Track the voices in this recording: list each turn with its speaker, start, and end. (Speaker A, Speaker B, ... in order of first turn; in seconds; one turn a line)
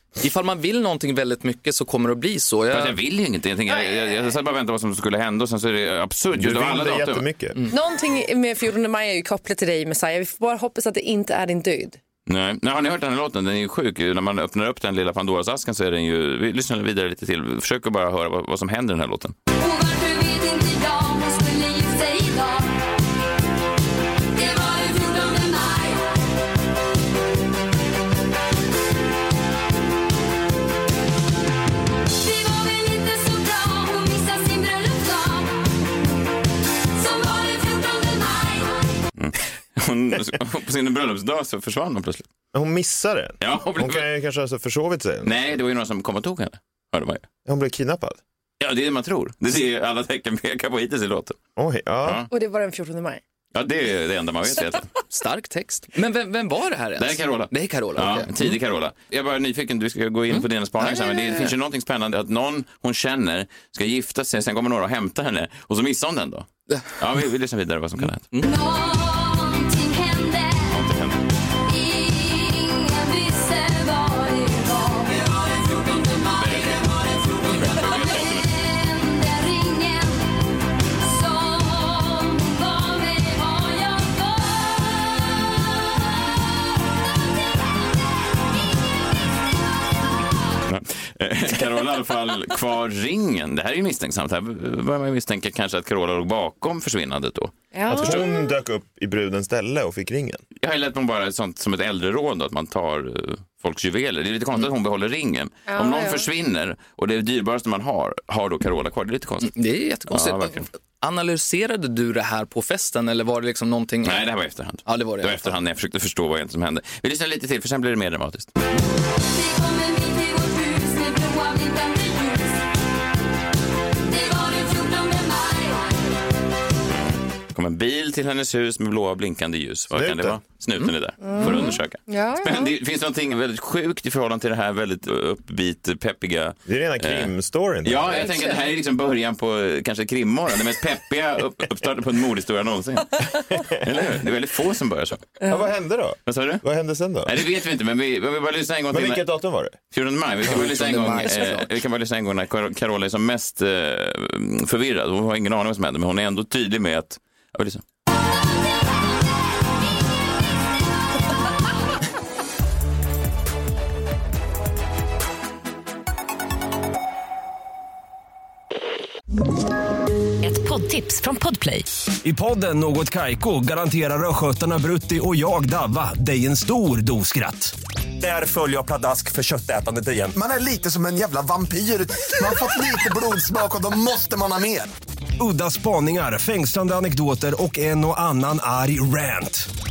Speaker A: 0.2-3.0
Speaker B: 2.7-7.2
Speaker C: 6.3-7.6
Speaker D: 7.7-12.0
Speaker B: 12.3-19.4
Speaker E: 19.5-23.0
Speaker E: 24.3-26.2
Speaker E: 32.1-35.7
Speaker E: 36.9-38.9
Speaker B: 39.1-42.3
Speaker C: 42.5-45.5
Speaker B: 43.4-44.1
Speaker B: 45.2-47.2
Speaker C: 47.4-48.2
Speaker B: 48.6-51.4
Speaker C: 51.5-52.2
Speaker B: 52.0-52.3
Speaker D: 52.3-53.2
Speaker B: 53.5-54.9
Speaker A: 55.1-58.5
Speaker B: 57.0-68.2
Speaker A: 60.3-61.5
Speaker A: 66.7-66.9
Speaker E: 68.4-70.8
Speaker B: 70.7-71.2
Speaker E: 71.5-80.3
Speaker B: 76.3-78.5
Speaker E: 81.0-85.5
Speaker B: 90.7-97.5
Speaker D: 97.7-98.5
Speaker C: 97.9-100.4
Speaker B: 100.6-109.5
Speaker D: 105.7-106.3
Speaker A: 109.4-114.3
Speaker B: 110.1-110.7
Speaker B: 114.0-118.5
Speaker A: 114.8-115.5
Speaker E: 119.2-122.6
Speaker E: 124.0-125.9
Speaker B: 126.9-145.3
Speaker C: 129.9-130.4
Speaker D: 131.2-132.7
Speaker C: 136.7-138.3
Speaker D: 138.2-138.7
Speaker C: 143.5-143.8
Speaker C: 145.5-147.4
Speaker B: 146.2-146.6
Speaker B: 147.2-149.3
Speaker C: 148.9-149.8
Speaker B: 149.9-157.8
Speaker F: 150.4-151.6
Speaker E: 170.4-171.9
Speaker G: 172.2-180.3
Speaker F: 180.3-184.9
Speaker G: 185.4-189.7